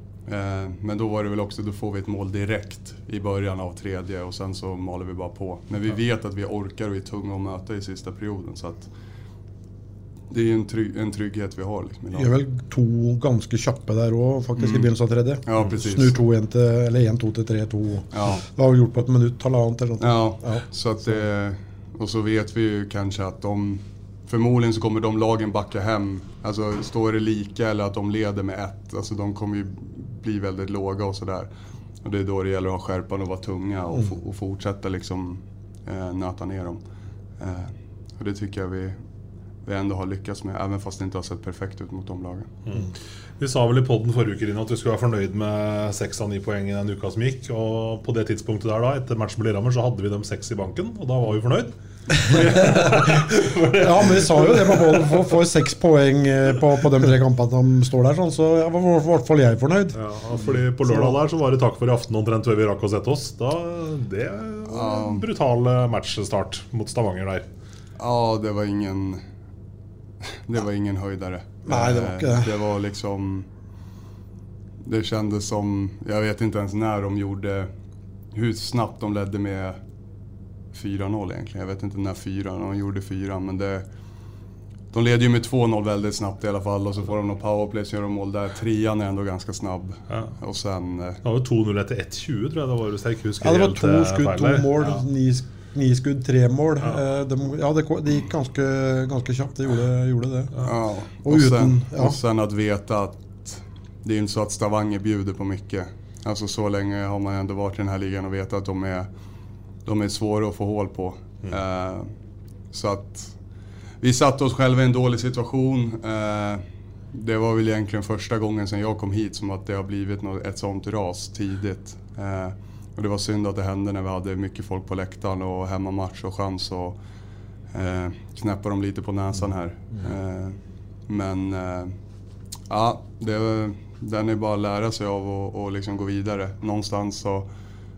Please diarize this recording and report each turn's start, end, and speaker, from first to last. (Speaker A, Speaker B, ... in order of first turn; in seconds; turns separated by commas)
Speaker A: 0.3-8.9, Speaker A: 10.3-12.3, Speaker B: 12.1-20.6, Speaker A: 14.6-14.9, Speaker A: 15.5-16.2, Speaker A: 18.1-18.4, Speaker A: 20.0-31.5, Speaker A: 32.0-36.8, Speaker A: 37.4-39.0, Speaker A: 39.6-42.5, Speaker C: 42.7-55.4, Speaker B: 52.3-52.9, Speaker B: 53.8-60.0, Speaker C: 60.0-67.5, Speaker B: 60.8-61.2, Speaker A: 64.7-65.3, Speaker A: 68.0-69.2, Speaker A: 70.5-73.5, Speaker B: 71.7-72.5, Speaker A: 74.8-77.7, Speaker A: 78.3-79.8, Speaker A: 80.7-83.9, Speaker A: 84.9-91.2, Speaker C: 91.2-94.7, Speaker B: 93.4-100.5, Speaker A: 100.6-109.1, Speaker B: 101.2-102.2, Speaker A: 109.8-112.1, Speaker A: 112.7-113.4, Speaker A: 114.0-127.0, Speaker A: 127.7-131.9, Speaker A: 132.7-137.5